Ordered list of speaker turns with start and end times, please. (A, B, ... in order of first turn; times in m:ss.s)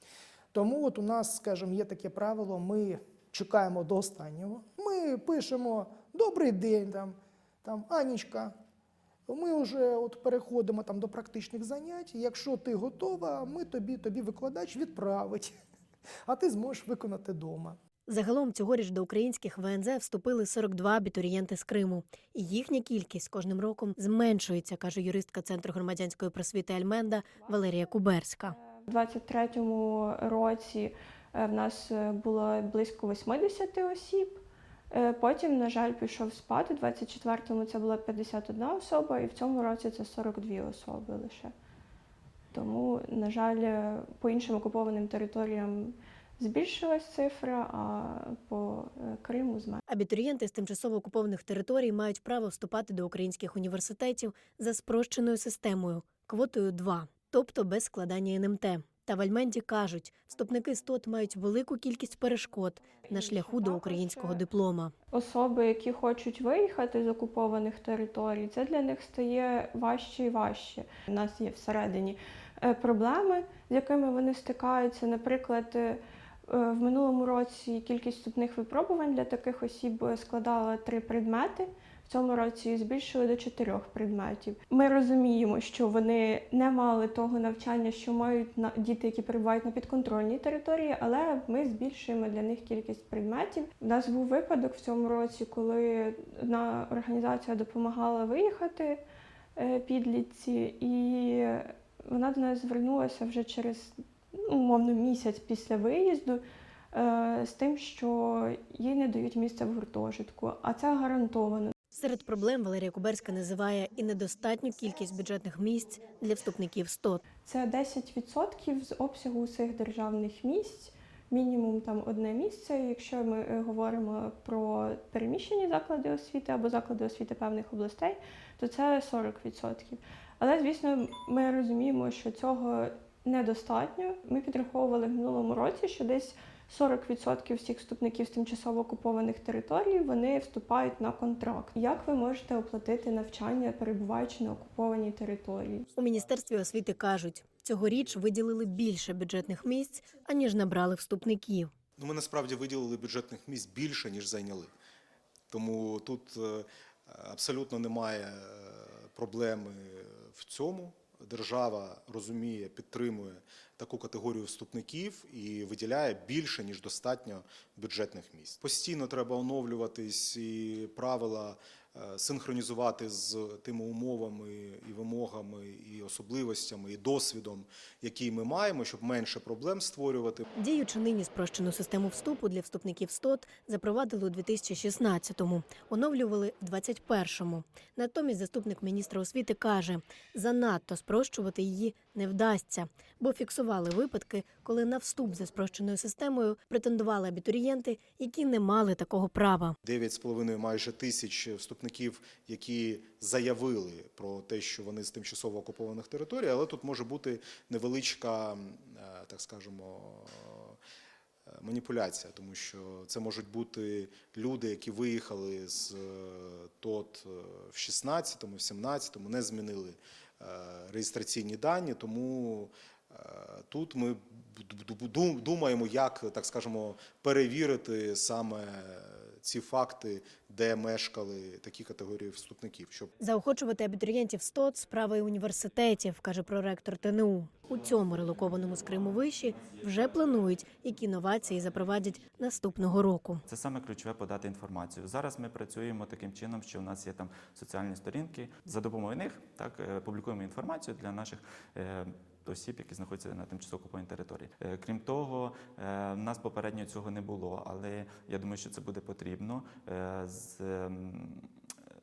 0:00.5-0:08.5 A
0:09.3-0:15.5 A
0:16.3-0:17.8 A
0:18.1-0:28.6 B
0:27.1-0:41.5 C
0:42.5-0:49.8 C
0:49.9-1:04.9 B
1:03.0-1:04.4 C
1:05.1-1:39.0 C
1:39.6-1:51.7 C
1:51.9-1:57.2 B
1:57.4-2:25.8 C
2:25.9-2:31.7 B
2:32.0-2:34.7 D
2:35.5-3:00.4 D
3:00.5-3:19.8 B
3:19.8-3:30.8 D
3:31.5-3:53.1 D
3:53.2-4:03.4 B
3:57.7-4:00.5 E
4:03.5-4:21.5 E